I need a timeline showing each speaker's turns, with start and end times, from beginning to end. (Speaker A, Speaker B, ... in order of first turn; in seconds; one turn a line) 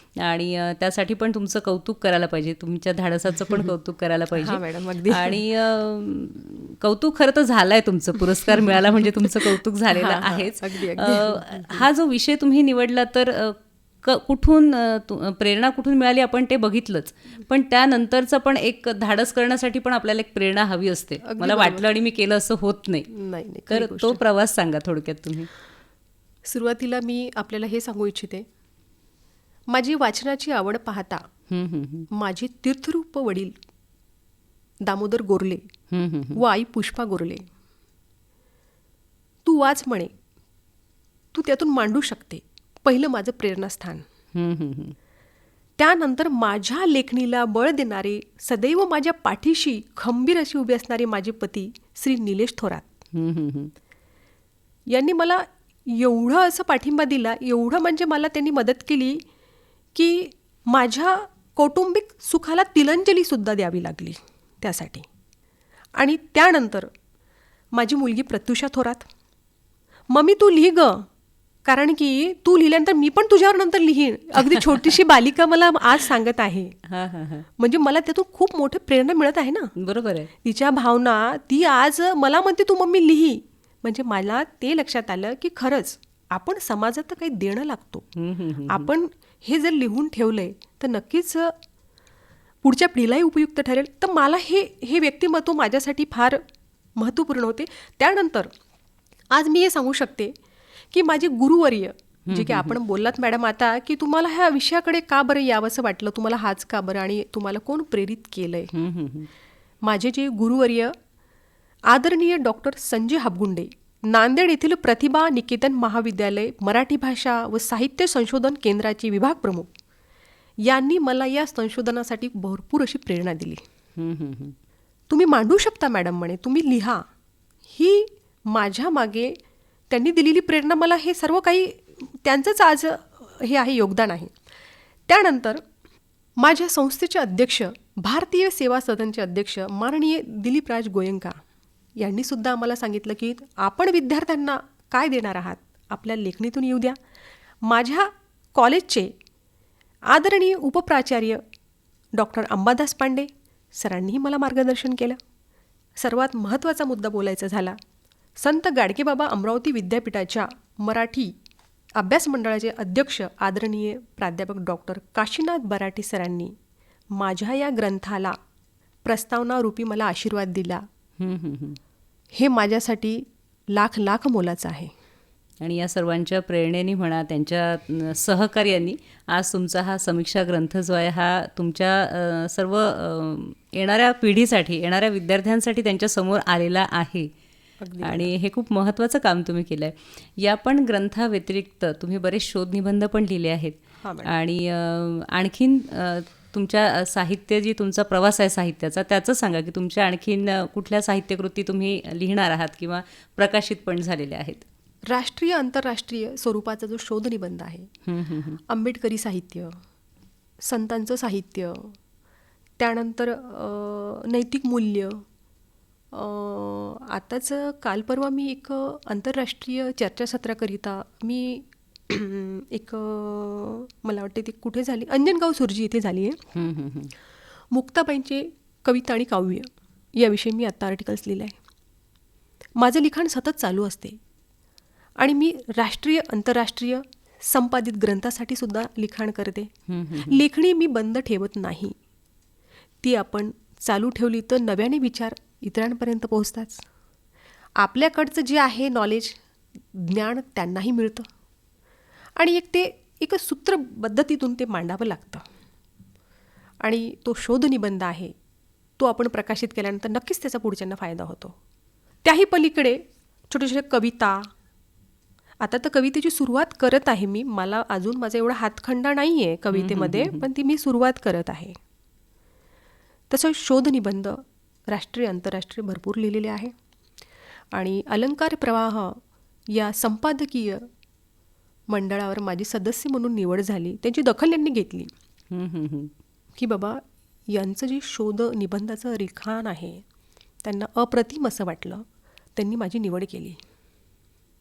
Speaker A: 0.1-23.1
Speaker B: 4.3-5.4
Speaker B: 8.5-11.8
Speaker B: 21.2-21.8
Speaker B: 23.1-24.2
Speaker A: 23.7-25.5
Speaker B: 26.4-28.4
Speaker B: 29.7-31.2
Speaker A: 31.5-32.1
Speaker B: 32.1-33.5
Speaker B: 34.8-35.7
Speaker A: 35.9-36.4
Speaker B: 36.3-37.4
Speaker B: 39.4-40.1
Speaker B: 41.3-44.0
Speaker A: 44.3-45.0
Speaker B: 45.8-52.9
Speaker A: 53.1-53.7
Speaker B: 54.9-59.2
Speaker B: 59.9-65.1
Speaker B: 65.9-66.9
Speaker B: 67.7-69.1
Speaker B: 70.1-71.1
Speaker B: 71.6-76.7
Speaker A: 74.5-74.8
Speaker A: 76.9-77.5
Speaker B: 77.6-79.7
Speaker A: 79.8-80.3
Speaker B: 80.4-88.0
Speaker A: 88.2-88.9
Speaker B: 88.7-91.5
Speaker B: 92.6-96.4
Speaker B: 97.0-98.5
Speaker B: 99.3-100.3
Speaker B: 100.9-108.7
Speaker A: 102.3-102.7
Speaker A: 108.7-109.3
Speaker B: 109.8-110.9
Speaker B: 111.9-119.7
Speaker B: 120.6-123.6
Speaker A: 124.0-124.5
Speaker B: 125.1-127.0
Speaker B: 127.7-129.4
Speaker B: 129.9-134.3
Speaker B: 135.1-135.6
Speaker B: 136.4-141.4
Speaker B: 142.0-147.0
Speaker B: 147.7-149.1
Speaker B: 150.1-151.4
Speaker B: 152.2-155.2
Speaker B: 155.9-157.8
Speaker B: 158.4-161.3
Speaker B: 161.9-166.5
Speaker B: 167.1-168.3
Speaker B: 169.0-170.8
Speaker A: 171.2-171.8
Speaker B: 172.3-174.9
Speaker A: 175.6-187.3
Speaker B: 187.8-188.3
Speaker A: 188.0-204.6
Speaker B: 194.0-194.3
Speaker B: 205.1-207.9
Speaker A: 208.1-208.6
Speaker B: 208.7-209.8
Speaker B: 210.6-211.9
Speaker B: 212.8-215.2
Speaker B: 216.1-226.4
Speaker A: 226.5-227.1
Speaker B: 227.7-231.6
Speaker B: 232.8-234.2
Speaker B: 235.2-239.7
Speaker A: 239.9-240.4
Speaker B: 240.2-241.9
Speaker B: 243.0-246.8
Speaker B: 247.8-251.3
Speaker B: 252.4-255.4
Speaker B: 256.8-258.3
Speaker B: 259.0-261.6
Speaker B: 262.2-264.5
Speaker B: 265.6-271.8
Speaker A: 269.7-270.4
Speaker B: 273.3-276.7
Speaker B: 277.7-279.2
Speaker B: 279.7-280.9
Speaker B: 281.9-285.1
Speaker A: 285.5-286.1
Speaker B: 286.6-290.0
Speaker B: 290.6-293.6